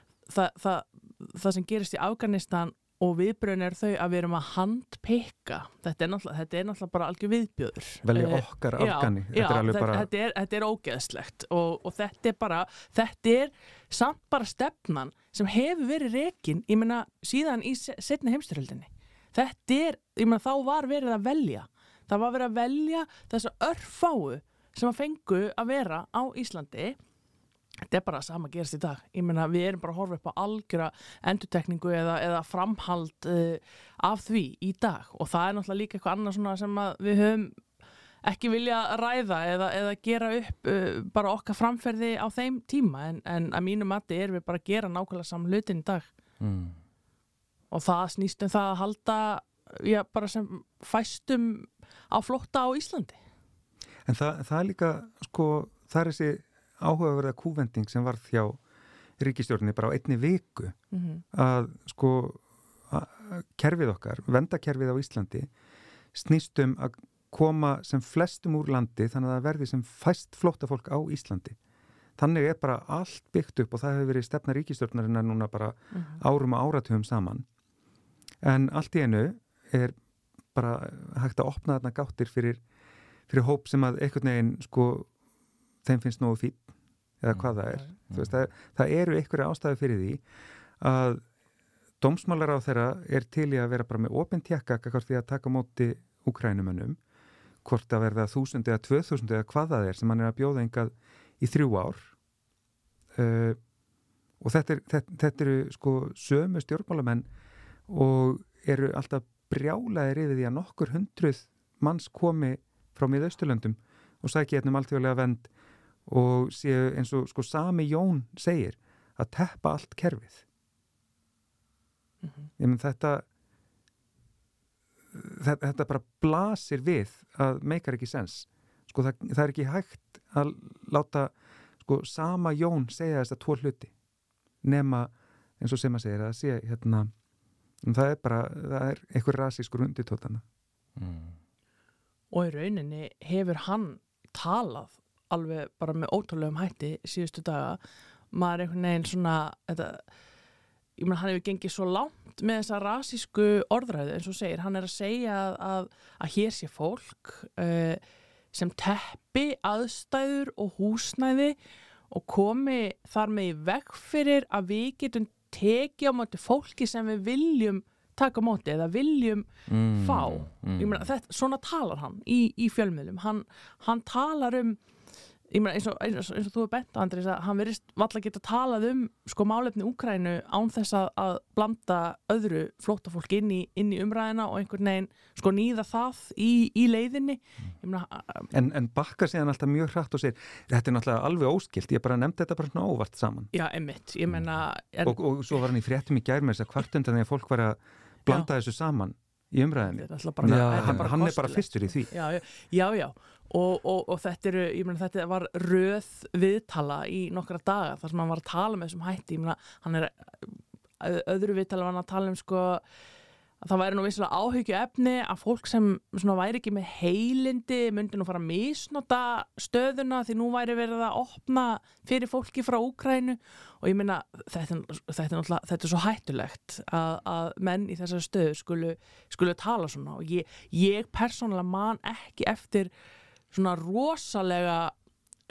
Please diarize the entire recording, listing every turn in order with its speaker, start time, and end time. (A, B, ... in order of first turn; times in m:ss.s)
0:00.3-0:27.0 A
0:08.0-0:10.1 B
0:27.9-0:37.6 A
0:38.2-0:46.1 A
0:46.4-0:46.8 C
0:47.7-0:53.2 A
0:54.1-0:58.6 B
0:59.2-1:00.8 B
1:00.9-1:01.2 A
1:01.3-1:05.5 B
1:06.1-1:11.6 B
1:12.2-1:17.5 B
1:15.9-1:16.2 A
1:18.4-1:20.0 B
1:20.6-1:22.6 B
1:23.3-1:25.1 B
1:25.8-1:26.7 B
1:27.2-1:30.2 B
1:30.8-1:31.2 B
1:32.0-1:37.0 B
1:37.6-1:42.1 B
1:43.2-1:43.6 B
1:44.4-1:47.3 B
1:47.9-1:55.5 B
1:56.1-2:00.4 B
2:02.6-2:03.2 B
2:05.1-2:13.9 B
2:14.6-2:17.1 B
2:17.8-2:20.4 B
2:21.0-2:21.4 C
2:22.3-2:27.8 A
2:28.3-2:30.0 A
2:31.0-2:38.0 A
2:38.5-2:41.6 A
2:42.1-2:54.8 A
2:49.7-2:51.1 C
2:55.5-3:08.5 A
3:08.5-3:13.5 B
3:13.5-3:15.7 A
3:15.0-3:22.1 B
3:19.9-3:32.8 A
3:20.4-3:21.1 C
3:33.6-3:52.9 A
3:53.5-3:54.9 A